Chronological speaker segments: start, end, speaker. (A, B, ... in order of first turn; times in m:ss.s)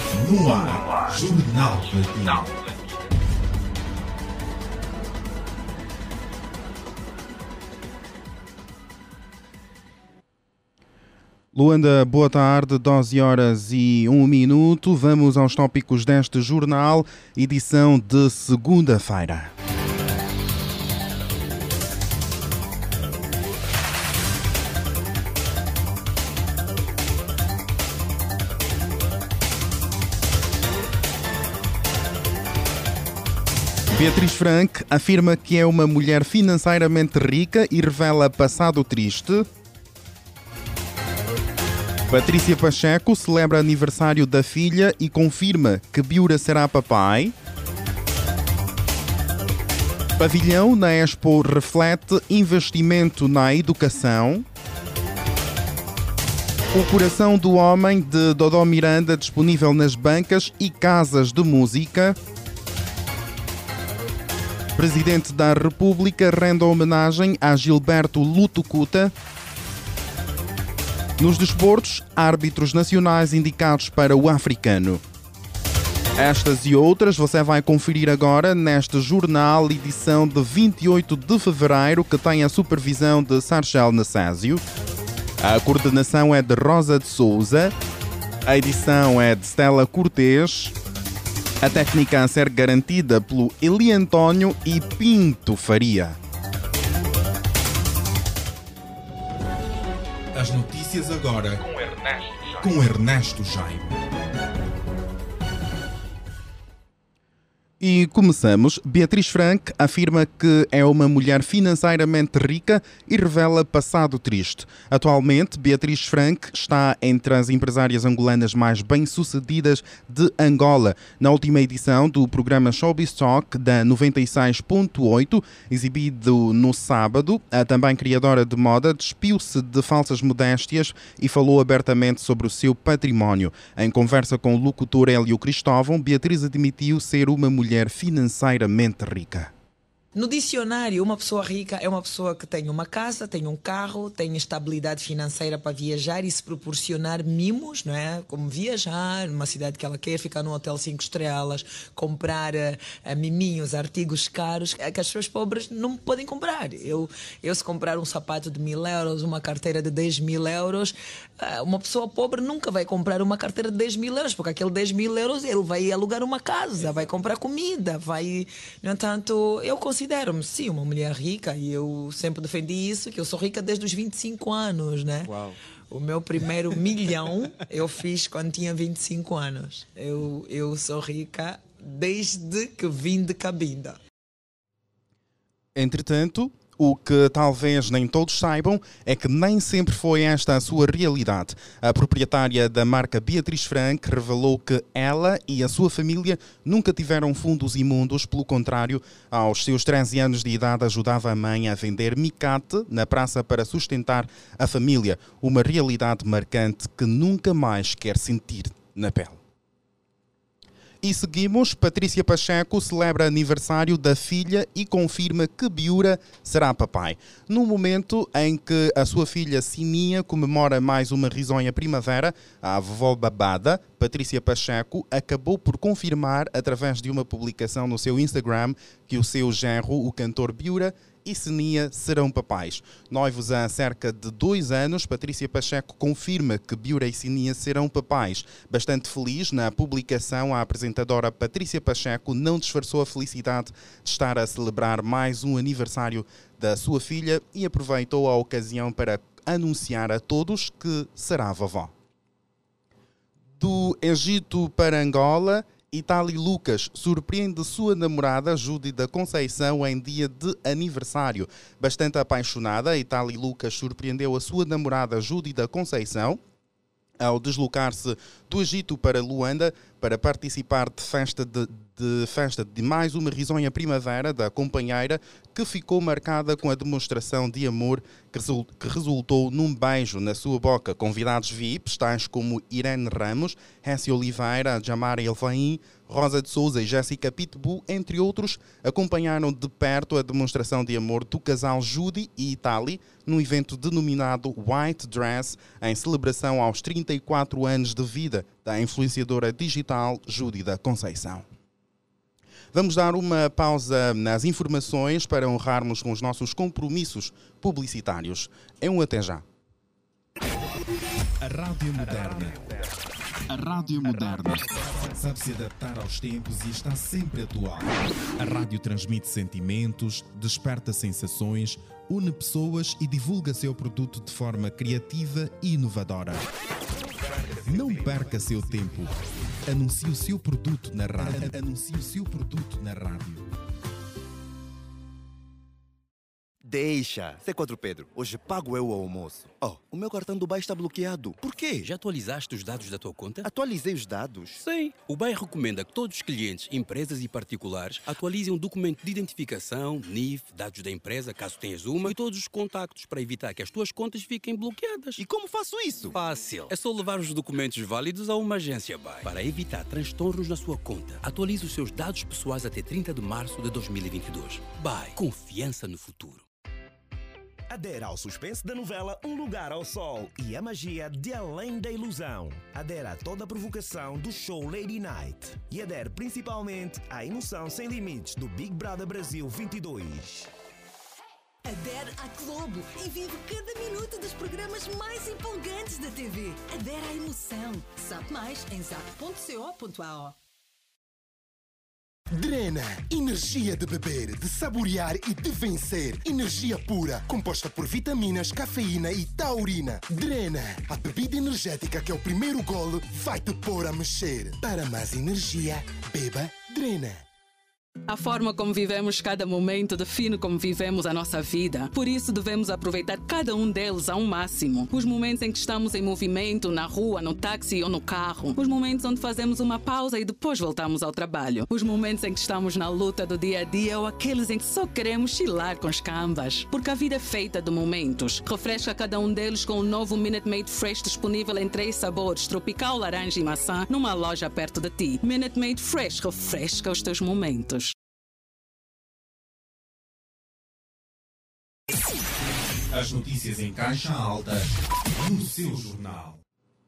0:00.2-0:02.5 A
0:11.5-0:19.5 B
0:33.9-0:39.5 B
0:42.1-0:47.4 B
0:50.2-0:54.5 B
0:56.7-1:02.2 B
1:04.8-1:09.1 B
1:11.2-1:15.0 B
1:16.2-1:24.6 B
1:25.4-1:27.8 B
1:28.5-1:30.8 B
1:31.6-1:36.2 B
1:40.4-1:43.3 A
1:41.2-1:41.6 B
1:42.6-1:43.9 B
1:47.8-2:19.5 B
2:20.2-3:04.0 C
3:05.8-3:29.4 B
3:31.0-4:11.9 B
4:13.6-4:26.4 B
4:27.2-5:01.5 B
5:02.7-5:09.4 B
5:11.4-5:12.6 A
5:13.5-5:17.9 A
5:18.4-5:20.0 A
5:20.0-5:26.4 B
5:27.7-5:28.5 B
5:27.8-5:29.1 A
5:29.7-5:30.5 A
5:30.6-5:31.5 B
5:31.1-5:33.4 A
5:36.6-5:41.9 D
5:41.8-5:43.5 E
5:43.4-5:44.6 D
5:44.6-5:55.2 E
5:55.2-5:56.2 D
5:56.1-6:06.5 E
6:07.7-6:20.5 F
6:21.6-6:30.4 G
6:32.3-6:47.2 H
6:48.1-7:17.9 I
7:22.9-7:26.4 A